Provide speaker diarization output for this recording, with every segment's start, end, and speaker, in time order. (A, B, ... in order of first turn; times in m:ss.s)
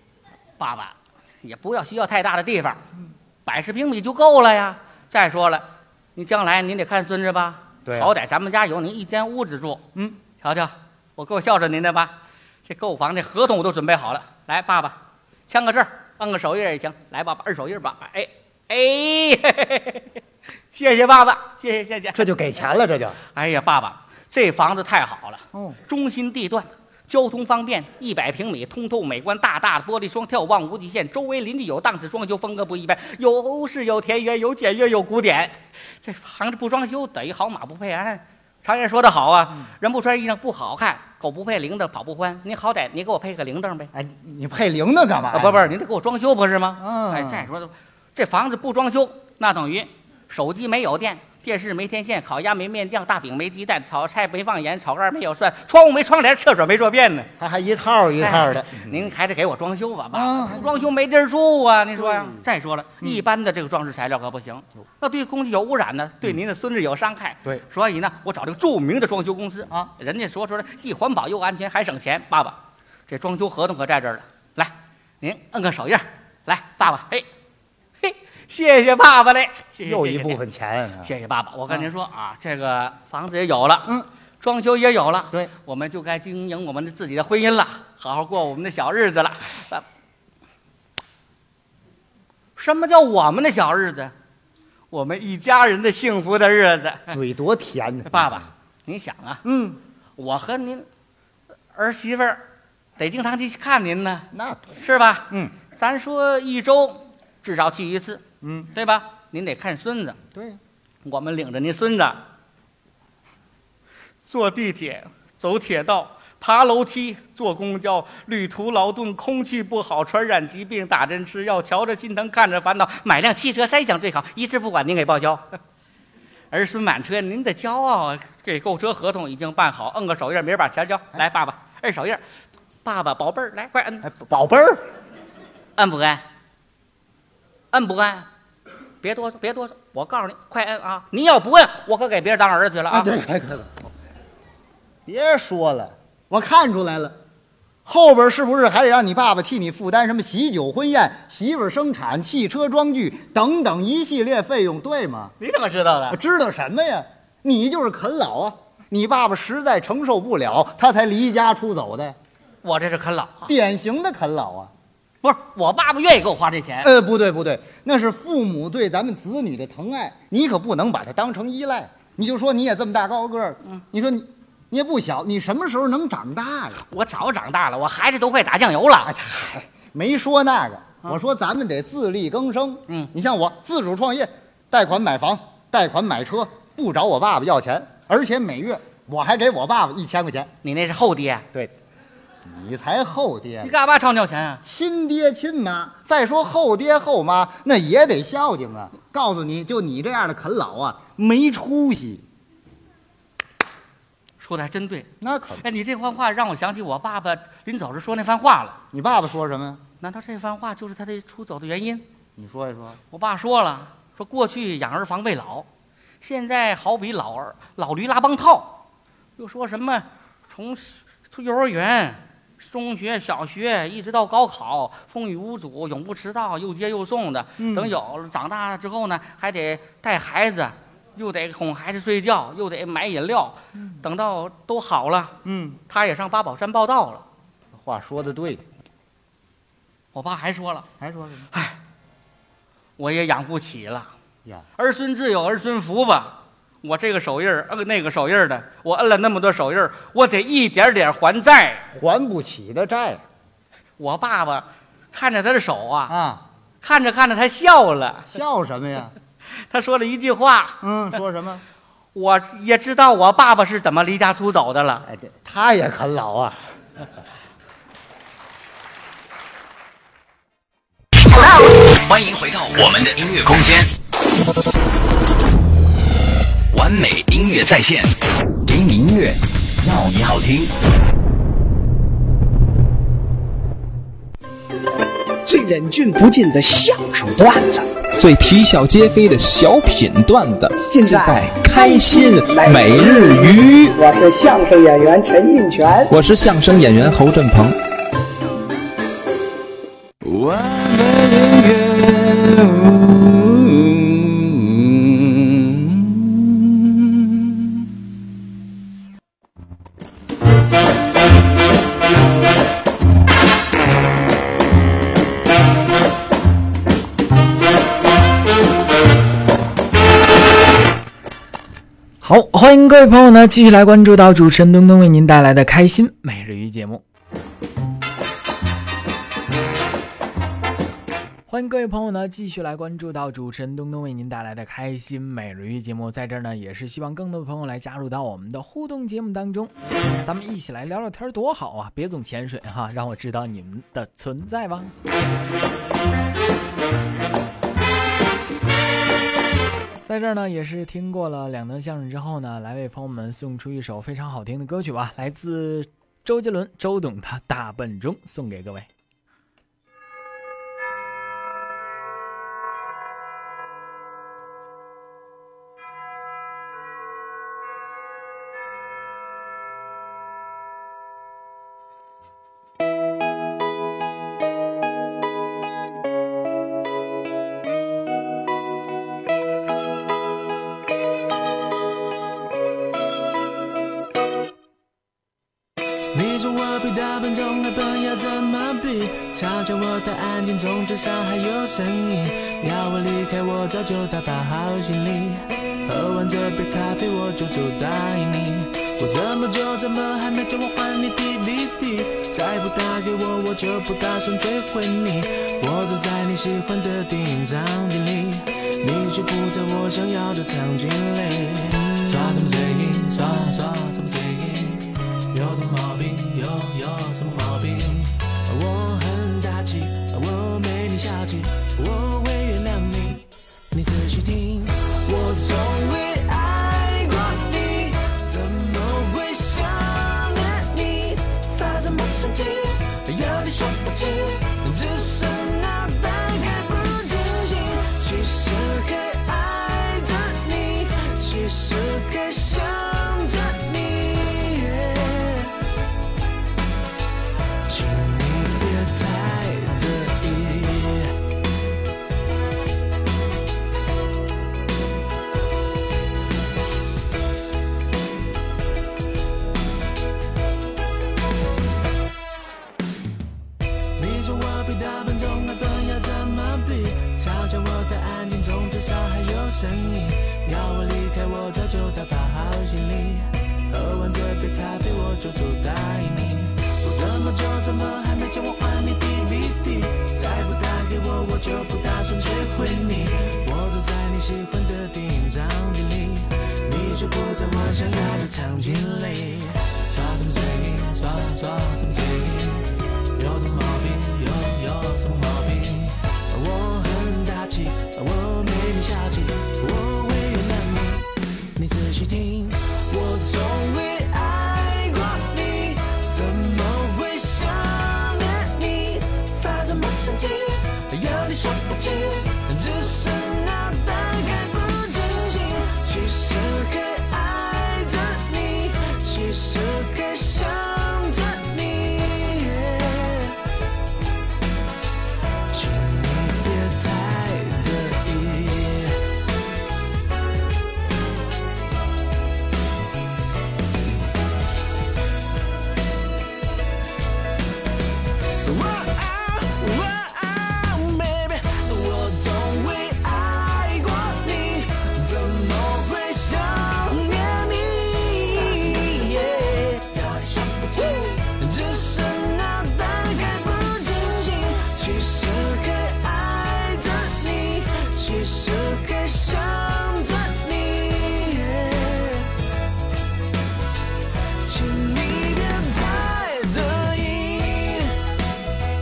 0:00.6-0:02.8 A
0:03.5-0:09.8 A
0:07.9-0:08.1 B
0:10.4-0:12.1 A
0:12.6-0:20.1 A
0:20.7-0:22.2 A
0:22.1-0:23.2 B
0:23.4-0:43.9 A
0:43.9-0:45.7 B
0:45.3-0:57.3 A
0:46.8-0:47.5 B
0:57.4-0:59.1 B
0:58.2-1:17.3 A
1:00.1-1:00.8 B
1:02.0-1:02.4 B
1:18.0-1:20.4 A
1:19.8-1:21.1 B
1:21.0-1:29.8 A
1:32.6-1:34.1 A
1:34.9-1:37.2 A
1:37.1-1:38.4 B
1:38.1-1:39.4 A
1:39.4-1:39.8 B
1:40.2-1:40.9 A
1:41.8-1:42.4 A
1:43.0-1:44.3 A
1:44.3-1:45.6 B
1:44.8-1:48.2 A
1:48.4-1:48.7 B
1:48.7-1:50.2 A
1:50.3-1:50.6 B
1:51.0-1:52.2 A
1:54.3-2:05.6 A
2:06.5-2:12.2 A
2:12.8-2:14.0 A
2:14.0-2:14.8 B
2:15.8-2:16.2 A
2:17.7-2:18.3 A
2:19.0-2:23.2 A
2:22.9-2:23.9 B
2:25.1-2:27.2 B
2:27.8-2:35.4 B
2:35.4-2:36.2 A
2:36.1-2:42.2 B
2:42.6-2:43.5 A
2:43.5-2:44.7 B
2:45.2-2:46.9 A
2:46.8-2:56.8 B
2:56.9-2:59.1 A
2:59.0-3:10.5 B
3:10.6-3:11.5 A
3:12.4-3:13.7 B
3:13.6-3:14.6 A
3:14.6-3:22.2 B
3:24.4-3:28.8 A
3:25.2-3:25.6 B
3:28.9-3:29.8 B
3:30.0-3:32.0 A
3:32.4-3:33.0 B
3:33.1-3:35.7 A
3:36.2-3:38.8 A
3:39.4-3:55.4 A
3:47.6-3:48.0 B
3:55.4-3:55.8 B
3:55.9-3:57.2 A
3:57.7-3:58.6 B
4:00.1-4:00.9 A
4:01.0-4:01.5 B
4:03.0-4:04.1 A
4:04.8-4:11.9 A
4:11.9-4:13.2 B
4:14.0-4:16.1 A
4:16.1-4:16.4 B
4:16.8-4:18.3 A
4:18.3-4:19.1 B
4:19.7-4:20.8 A
4:20.8-4:21.6 B
4:22.2-4:25.0 A
4:25.1-4:26.6 B
4:32.0-4:33.9 C
4:36.7-4:38.1 C
4:38.7-4:40.7 C
4:45.4-4:47.9 D
4:48.2-4:54.0 E
4:50.9-4:56.1 D
4:56.1-4:57.8 E
5:00.2-5:06.1 E
5:22.2-5:27.0 F
5:31.5-5:39.7 F
5:40.2-5:44.9 F
5:50.0-5:58.9 F
6:26.1-7:25.5 G
7:27.7-7:31.1 G
7:44.0-8:43.4 G
8:45.5-8:49.0 G
8:58.4-9:22.3 G
9:24.4-9:28.0 G